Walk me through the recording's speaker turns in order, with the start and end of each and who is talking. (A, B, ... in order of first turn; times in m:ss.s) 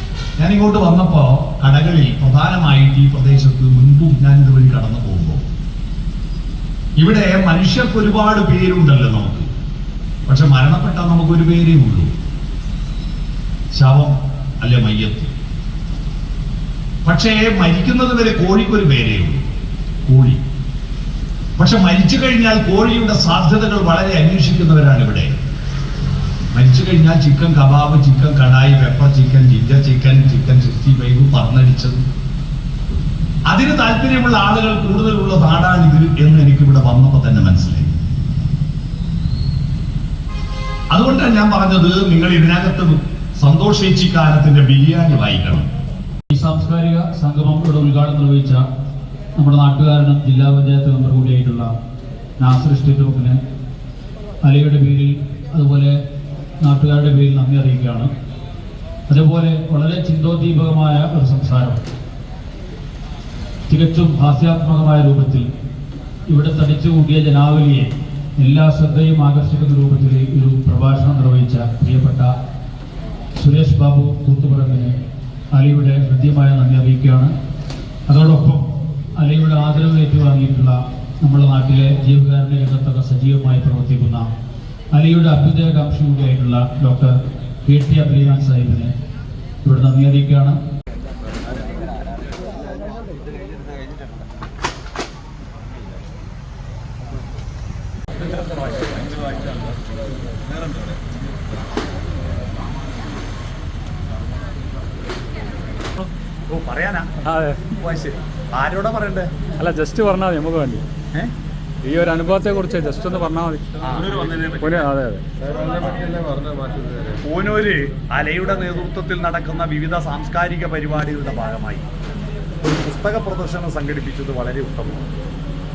0:00.4-0:05.4 A
0:07.0-0:09.5 A
0:10.3-0:12.1 A
0:13.7-0:15.3 A
0:17.0-0:19.5 A
0:20.0-0:20.4 A
0:21.6-0:25.3 A
0:26.5-0:32.0 A
0:33.5-0:37.9 A
0:40.9-0:45.7 A
0:46.3-0:48.6 B
0:49.4-0:51.7 B
0:52.4-0:53.4 B
0:54.4-0:55.9 B
0:56.6-0:58.1 B
0:59.1-1:01.8 B
1:03.7-1:05.5 B
1:06.3-1:12.3 B
1:13.4-1:14.9 B
1:15.5-1:17.3 B
1:18.1-1:18.6 B
1:19.2-1:24.2 B
1:24.9-1:27.1 B
1:27.6-1:28.9 B
1:29.6-1:30.6 B
1:38.4-1:39.2 A
1:46.5-1:49.5 A
1:47.3-1:47.7 C
1:49.6-1:50.8 C
1:50.0-1:50.6 B
1:51.8-1:53.6 C
1:53.8-1:54.8 A
1:54.8-1:55.2 C
1:55.6-1:56.2 A
1:56.2-1:56.9 C
1:57.1-2:01.8 A
2:02.6-2:05.1 A